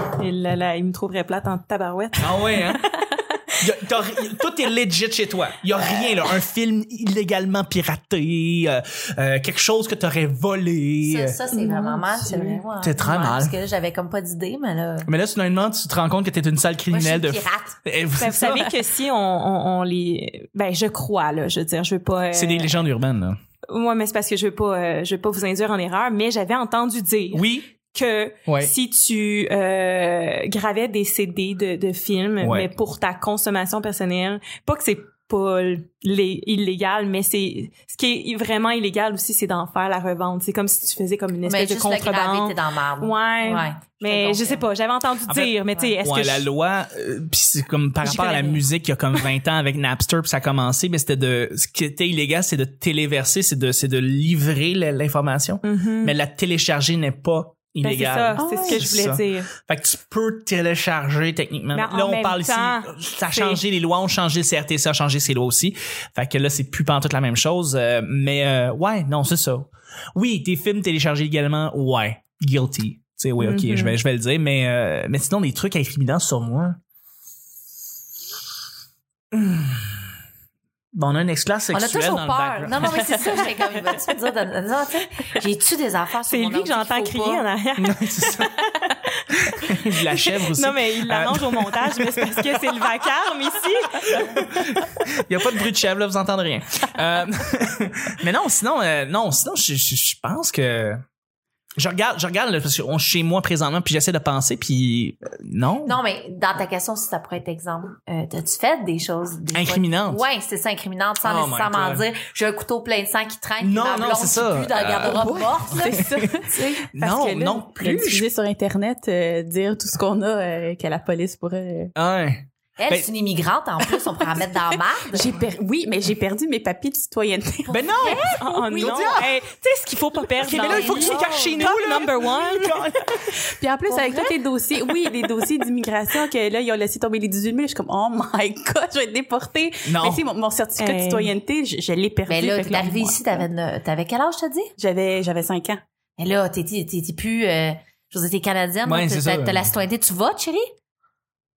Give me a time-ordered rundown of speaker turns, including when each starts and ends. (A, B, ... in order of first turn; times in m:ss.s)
0:00.2-0:03.6 A
0:02.2-0:02.8 B
0:03.6-0:11.4 B
0:11.0-0:15.1 C
0:11.6-0:12.5 A
0:12.8-0:13.5 B
0:15.0-0:18.7 B
0:16.9-0:17.8 C
0:18.2-0:22.8 A
0:22.3-0:23.4 B
0:23.7-0:46.5 A
0:27.3-0:27.7 B
0:28.5-0:28.7 B
0:32.4-0:32.7 B
0:41.4-0:44.6 C
0:45.3-1:16.8 B
0:48.0-0:48.6 A
0:55.6-0:56.1 A
0:57.8-0:59.5 A
0:58.4-0:58.9 D
1:01.7-1:03.6 A
1:13.4-1:13.9 A
1:19.3-1:20.0 B
1:20.9-1:23.2 B
1:21.7-1:27.4 C
1:26.3-1:34.2 A
1:27.8-1:28.5 B
1:29.5-1:32.6 B
1:34.0-1:41.0 B
1:41.8-1:46.0 B
1:45.8-1:56.0 C
1:49.5-1:50.2 B
1:51.2-1:52.0 B
1:53.6-1:58.3 B
1:55.0-2:01.9 D
2:01.9-2:03.1 B
2:02.8-2:05.4 C
2:05.1-2:09.2 D
2:07.7-2:09.3 B
2:07.7-2:08.4 C
2:08.4-2:12.8 A
2:10.4-2:13.4 B
2:10.5-2:11.7 D
2:11.2-2:11.5 C
2:13.4-2:23.4 D
2:13.9-2:14.4 C
2:19.8-2:20.2 B
2:20.8-2:21.3 A
2:22.3-2:24.7 C
2:24.8-2:25.8 D
2:26.2-2:30.7 C
2:28.8-2:29.7 B